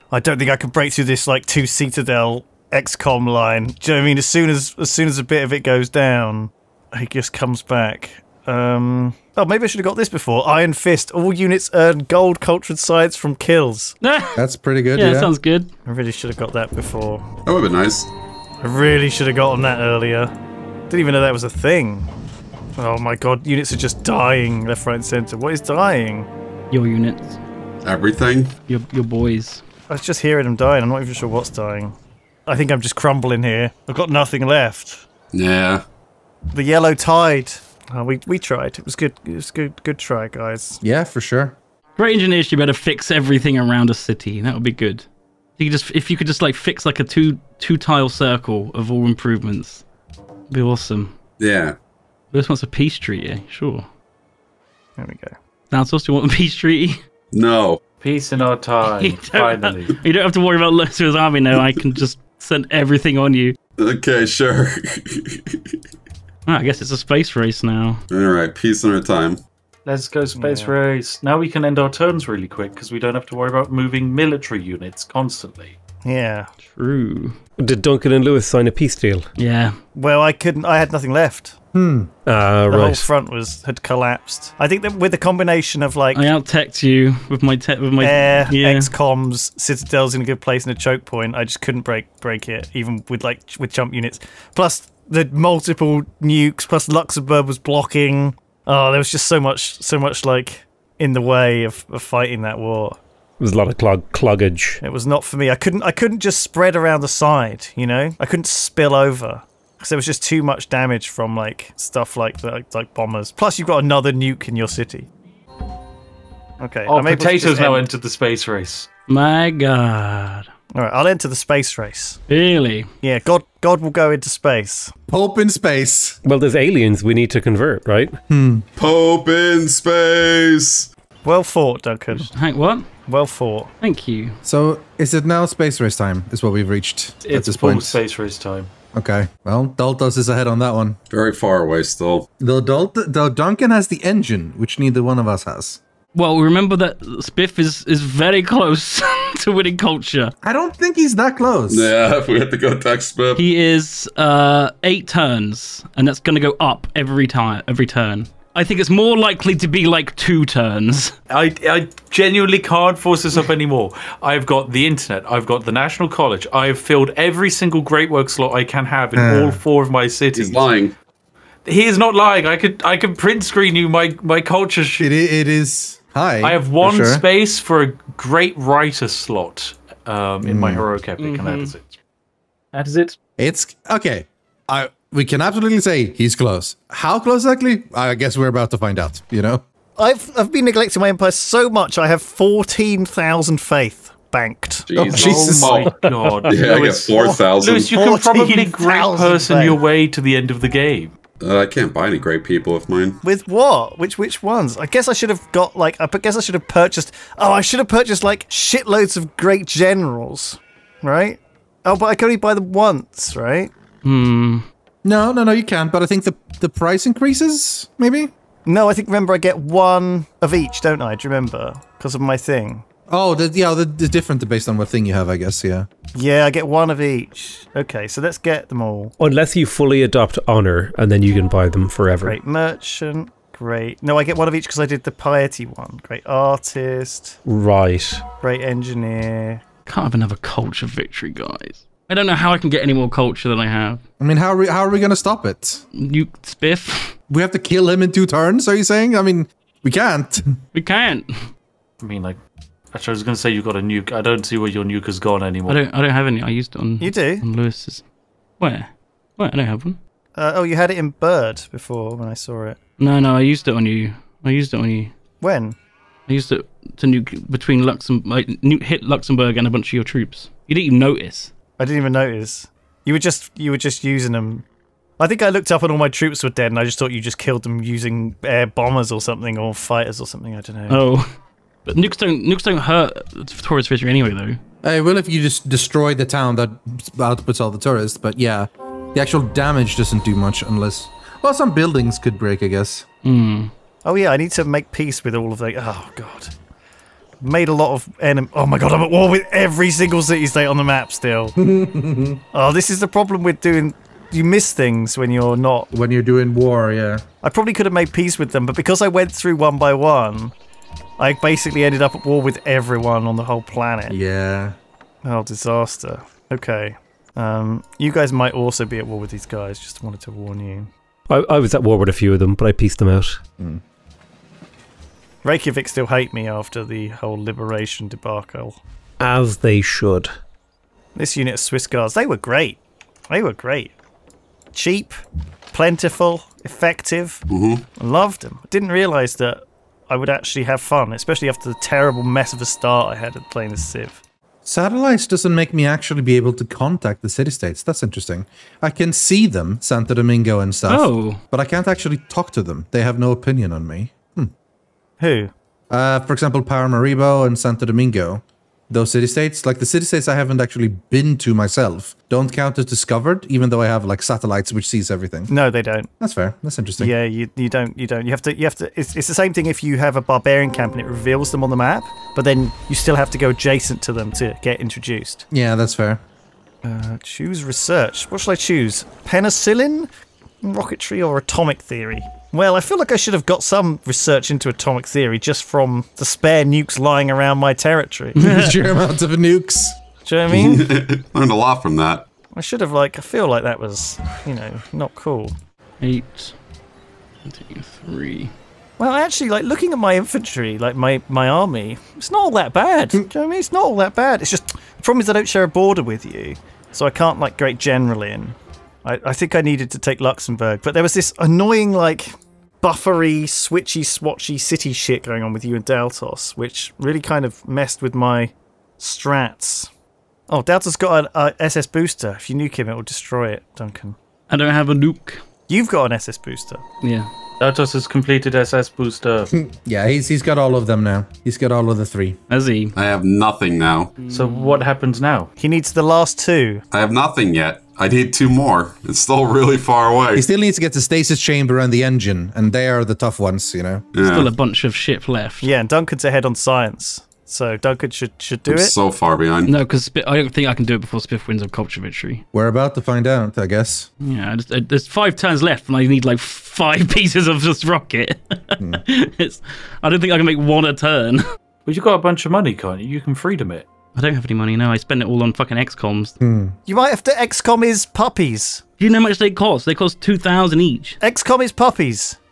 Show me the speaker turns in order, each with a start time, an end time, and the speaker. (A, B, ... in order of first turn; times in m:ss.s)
0:00.1-0:14.0 A
0:14.0-0:14.4 B
0:14.4-0:15.3 C
0:14.9-0:15.7 B
0:15.8-0:17.3 A
0:17.4-0:18.1 D
0:18.6-0:20.3 A
0:20.9-0:22.1 A
0:22.8-0:26.3 A
0:26.7-0:27.4 B
0:27.8-0:28.5 D
0:28.7-0:29.6 B
0:29.9-0:32.0 A
0:32.5-0:35.0 A
0:35.3-0:35.8 D
0:36.5-0:40.8 A
0:40.8-0:41.6 C
0:42.0-0:45.0 B
0:45.6-0:49.8 B
0:50.5-0:51.2 B
0:51.4-0:51.8 D
0:52.3-0:53.9 B
0:55.0-0:55.3 A
0:55.7-0:57.0 B
0:57.3-0:57.8 D
0:58.0-1:00.0 E
0:59.0-1:03.6 B
1:03.8-1:05.8 D
1:06.4-1:08.0 B
1:08.1-1:09.4 D
1:09.8-1:15.8 E
1:10.4-1:10.7 A
1:16.0-1:16.5 A
1:16.7-1:17.4 B
1:17.6-1:19.3 F
1:19.4-1:19.8 B
1:19.9-1:21.5 A
1:21.7-1:22.1 C
1:22.2-1:23.1 F
1:22.7-1:26.2 A
1:26.1-1:28.9 B
1:28.0-1:43.0 A
1:43.4-1:44.8 F
1:44.8-1:55.1 A
1:56.6-1:57.8 A
1:56.9-1:58.9 E
1:59.1-2:00.5 B
2:00.7-2:02.2 A
2:02.3-2:02.9 B
2:03.0-2:04.9 A
2:05.1-2:06.2 C
2:06.2-2:08.2 F
2:08.3-2:08.6 C
2:08.8-2:10.9 D
2:11.2-2:12.3 A
2:12.2-2:12.9 B
2:13.1-2:13.7 A
2:13.8-2:14.4 B
2:14.4-2:18.0 C
2:17.2-2:18.7 E
2:18.9-2:21.0 C
2:21.1-2:22.3 D
2:22.4-2:25.8 C
2:26.1-2:30.3 B
2:30.4-2:31.9 C
2:31.7-2:33.4 D
2:33.4-2:41.1 B
2:41.3-2:50.7 E
2:49.1-2:49.6 C
2:50.3-2:50.9 D
2:51.6-2:55.1 E
2:55.0-2:57.2 C
2:56.4-3:01.9 E
3:00.4-3:00.8 C
3:01.2-3:01.7 B
3:02.7-3:03.2 E
3:03.4-3:09.6 C
3:10.0-3:14.9 A
3:14.9-3:15.9 D
3:15.0-3:21.1 E
3:15.1-3:15.7 C
3:16.5-3:17.9 D
3:17.1-3:19.8 A
3:21.4-3:23.2 D
3:23.2-3:33.7 A
3:34.0-3:34.7 B
3:35.0-3:38.3 C
3:38.6-3:42.8 A
3:43.1-3:45.9 C
3:46.1-3:49.1 A
3:49.2-3:52.4 F
3:52.2-3:57.4 A
3:57.4-3:58.2 F
3:58.4-3:59.6 A
3:59.8-4:04.0 B
4:04.2-4:05.8 C
4:05.9-4:07.2 B
4:07.3-4:10.5 C
4:10.7-4:11.5 B
4:12.0-4:12.4 E
4:12.9-4:15.8 E
4:15.7-4:18.0 B
4:17.0-4:17.4 A
4:18.6-4:20.0 B
4:20.3-4:22.8 A
4:23.0-4:25.1 B
4:25.4-4:25.8 A
4:26.3-4:31.5 B
4:31.8-4:34.6 A
4:35.2-4:41.0 A
4:40.9-4:41.3 B
4:41.8-4:44.6 B
4:44.8-4:53.0 C
4:53.2-4:53.7 B
4:54.0-4:56.5 A
4:57.4-5:01.6 A
5:01.6-5:02.4 C
5:02.5-5:05.9 A
5:05.9-5:07.2 C
5:07.4-5:10.5 A
5:11.2-5:14.2 A
5:14.1-5:14.8 C
5:15.2-5:20.9 A
5:21.3-5:23.4 F
5:25.4-5:28.8 A
5:29.2-5:30.3 F
5:31.1-5:33.9 A
5:34.7-5:35.2 A
5:35.7-5:37.4 A
5:37.5-5:37.8 D
5:38.0-5:44.2 A
5:44.6-5:54.5 C
5:50.9-5:51.4 B
5:55.2-5:55.5 A
5:55.9-6:05.5 C
6:05.5-6:06.1 A
6:06.2-6:07.1 C
6:07.0-6:15.4 A
6:15.5-6:16.2 C
6:16.8-6:20.1 A
6:20.6-6:28.4 A
6:28.4-6:30.0 C
6:28.4-6:28.7 B
6:30.2-6:30.9 A
6:30.5-6:32.2 D
6:32.5-6:35.5 A
6:36.0-6:36.5 B
6:37.4-6:38.5 B
6:39.0-6:59.9 A
7:00.5-7:04.2 A
7:04.5-7:05.4 B
7:05.7-7:06.8 A
7:07.0-7:07.3 B
7:07.6-7:09.5 E
7:09.5-7:12.4 C
7:12.5-7:12.9 B
7:12.9-7:14.1 D
7:14.2-7:14.8 B
7:14.3-7:15.5 E
7:15.6-7:16.8 A
7:16.9-7:20.4 D
7:20.4-7:24.0 C
7:24.1-7:24.5 D
7:24.2-7:25.7 B
7:25.6-7:28.9 A
7:28.7-7:29.7 D
7:29.6-7:32.4 B
7:32.5-7:34.1 C
7:34.2-7:41.4 B
7:41.8-7:43.8 E
7:44.1-7:46.4 B
7:46.4-7:46.8 C
7:46.8-7:48.8 A
7:49.0-7:51.2 B
7:51.2-7:52.4 A